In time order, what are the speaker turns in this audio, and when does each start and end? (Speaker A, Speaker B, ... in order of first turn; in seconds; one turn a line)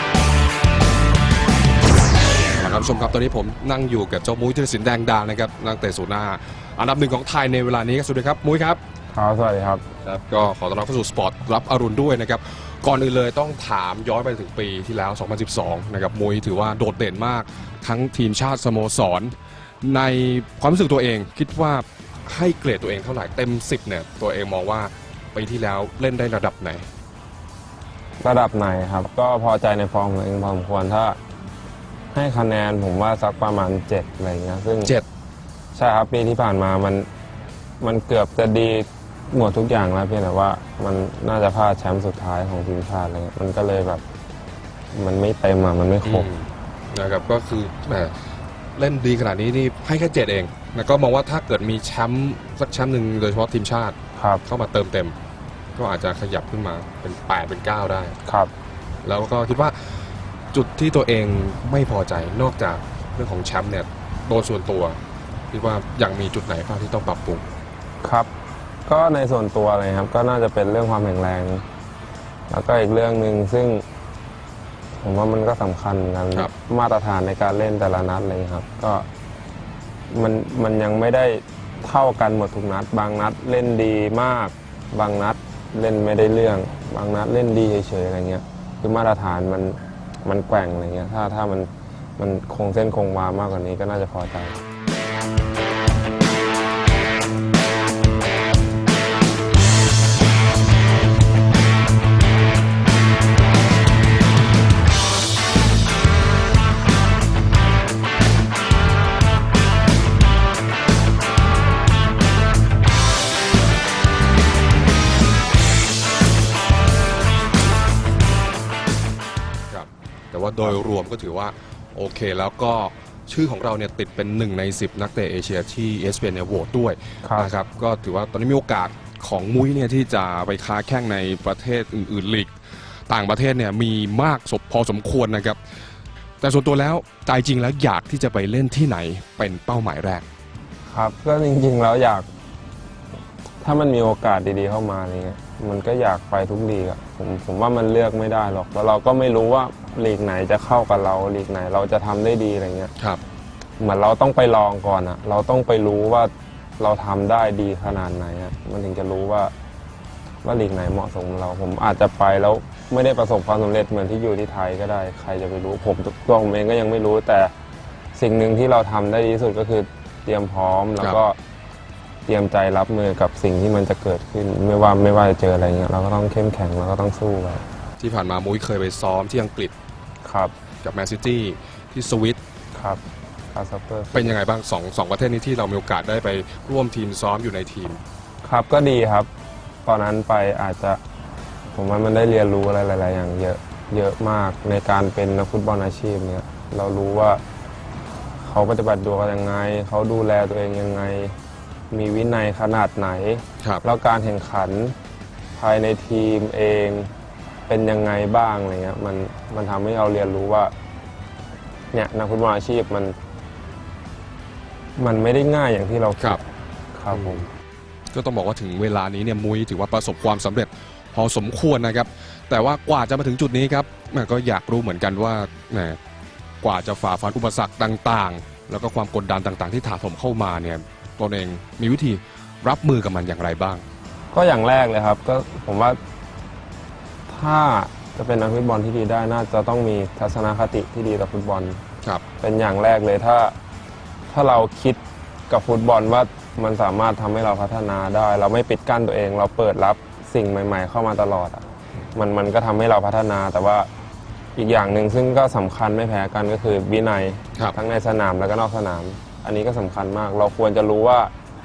Speaker A: 2.5-8.8
Speaker B: 9.1-9.8
Speaker A: 10.0-26.9
Speaker B: 28.2-31.2
Speaker B: 32.1-34.9
Speaker B: 35.7-37.1
Speaker B: 37.8-44.0
Speaker B: 44.9-46.3
Speaker A: 46.0-48.1
Speaker A: 48.8-55.1
Speaker B: 54.2-54.4
Speaker A: 55.8-58.2
Speaker B: 58.2-58.5
Speaker A: 59.0-59.8
Speaker A: 60.5-65.0
Speaker A: 65.5-67.5
Speaker B: 68.0-68.3
Speaker B: 68.9-71.6
Speaker B: 72.5-73.8
Speaker B: 75.0-79.1
Speaker B: 80.1-94.6
Speaker A: 119.7-132.5
Speaker B: 127.2-127.5
Speaker A: 133.1-135.6
Speaker A: 136.4-140.3
Speaker B: 140.9-142.3
Speaker B: 143.6-152.9
Speaker B: 153.8-159.5
Speaker B: 160.4-167.5
Speaker B: 168.2-171.4
Speaker B: 172.3-177.6
Speaker A: 178.0-179.8
Speaker B: 180.2-180.5
Speaker A: 180.8-182.4
Speaker B: 182.7-183.0
Speaker B: 183.5-184.4
Speaker A: 184.1-188.0
Speaker B: 188.4-189.3
Speaker B: 189.8-191.0
Speaker B: 191.7-197.4
Speaker B: 198.4-201.3
Speaker B: 201.9-204.9
Speaker B: 205.6-207.1
Speaker B: 207.7-210.7
Speaker B: 211.9-213.2
Speaker B: 215.0-216.4
Speaker B: 216.9-217.4
Speaker A: 217.1-217.5
Speaker A: 218.1-226.0
Speaker A: 226.6-233.8
Speaker B: 234.3-236.0
Speaker B: 237.3-241.8
Speaker B: 242.4-243.6
Speaker B: 244.3-253.9
Speaker B: 254.6-261.3